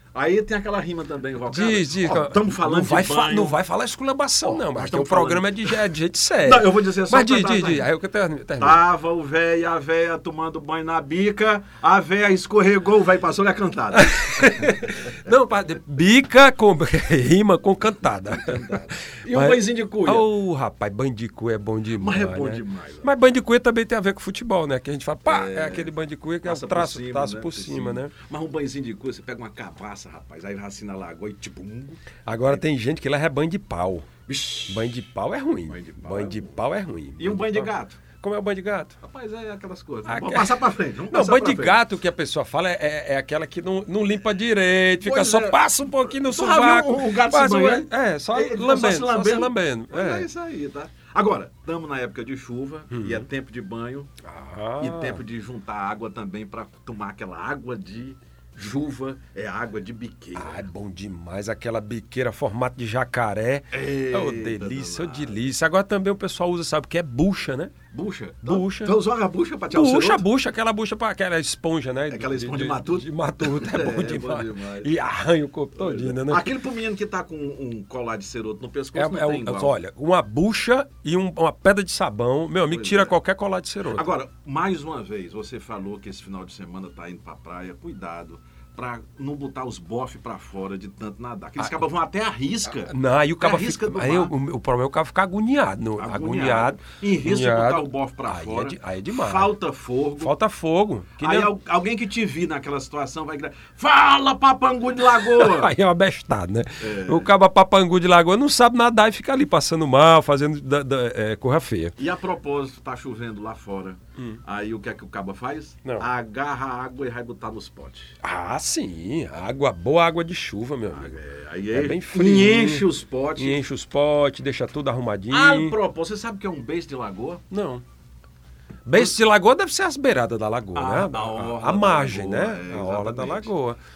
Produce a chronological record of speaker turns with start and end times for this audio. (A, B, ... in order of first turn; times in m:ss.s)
0:00.1-0:03.6 A
0:01.5-0:08.8 B
0:04.4-0:05.8 A
0:06.4-0:07.9 A
0:08.6-0:14.6 A
0:13.9-0:28.1 B
0:18.3-0:20.2 A
0:22.0-0:23.1 A
0:25.2-0:32.6 A
0:32.2-0:34.1 B
0:34.3-0:34.9 A
0:34.7-0:38.9 B
0:35.7-0:36.4 A
0:37.2-0:38.0 A
0:39.0-0:41.8 A
0:40.1-0:50.3 B
0:45.0-0:45.6 A
0:46.2-0:54.1 A
0:52.9-0:53.3 B
0:54.2-0:55.2 B
0:54.8-1:00.6 A
1:00.4-1:07.7 B
1:03.7-1:05.4 A
1:07.9-1:10.2 A
1:08.4-1:09.0 B
1:09.7-1:16.5 B
1:12.1-1:14.9 A
1:15.8-1:19.7 A
1:18.9-1:24.1 B
1:22.7-1:23.1 A
1:23.9-1:34.3 A
1:31.6-1:31.8 B
1:32.6-1:39.5 B
1:36.0-1:40.3 A
1:40.2-1:41.5 B
1:41.2-1:45.7 A
1:45.1-1:52.0 B
1:46.8-1:47.3 A
1:52.0-1:58.2 A
1:58.2-2:01.2 B
2:00.9-2:03.6 A
2:01.7-2:05.8 B
2:05.3-2:07.4 A
2:07.5-2:07.8 B
2:08.8-2:13.8 B
2:10.7-2:13.5 A